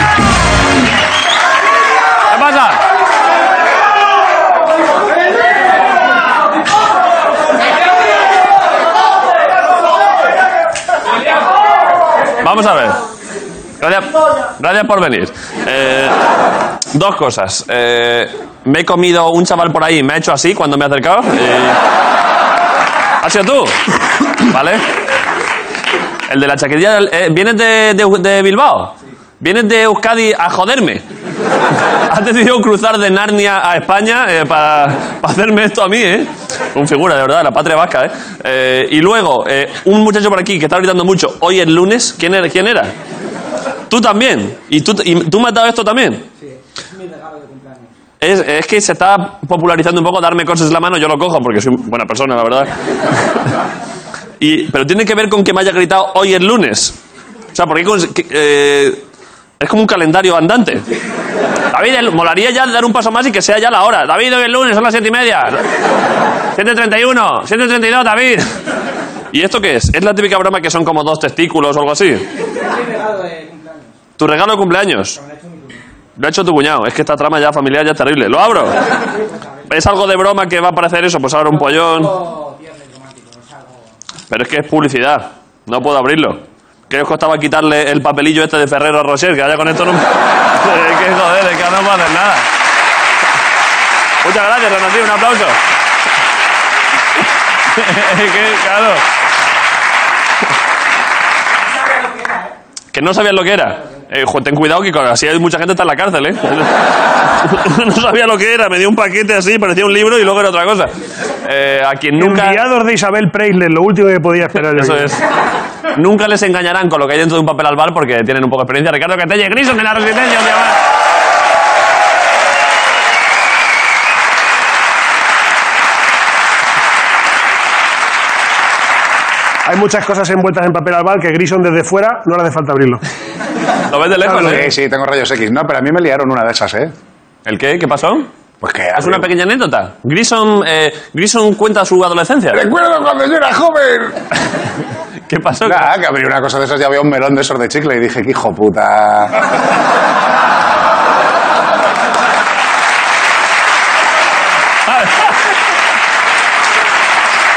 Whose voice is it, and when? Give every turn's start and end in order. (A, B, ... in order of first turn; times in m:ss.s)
0:02.3-0:02.8 A
0:12.4-0:13.0 A
0:13.8-0:16.2 A
0:16.9-0:21.8 A
0:23.2-0:23.8 A
0:24.4-0:24.8 A
0:26.3-0:31.0 A
0:32.1-0:42.9 A
0:43.9-0:46.2 A
0:48.2-0:52.7 A
0:54.4-0:57.0 A
0:57.5-0:59.0 A
0:59.6-1:00.8 A
1:01.7-1:05.6 A
1:06.5-1:08.5 A
1:09.3-1:12.3 A
1:14.2-1:15.2 A
1:16.2-1:18.8 A
1:19.7-1:22.4 A
1:24.3-1:32.5 A
1:34.2-1:35.6 A
1:37.7-1:39.0 A
1:42.9-1:50.9 A
1:51.4-1:52.6 A
1:52.2-1:55.1 B
1:54.5-1:55.2 A
1:55.9-2:00.8 A
2:09.6-2:13.0 B
2:13.9-2:14.7 A
2:14.3-2:14.6 B
2:14.4-2:16.9 C
2:17.4-2:18.3 A
2:18.6-2:19.3 C
2:18.9-2:22.6 A
2:22.5-2:24.2 C
2:25.3-2:25.9 A
2:25.6-2:29.4 C
2:34.9-2:35.3 A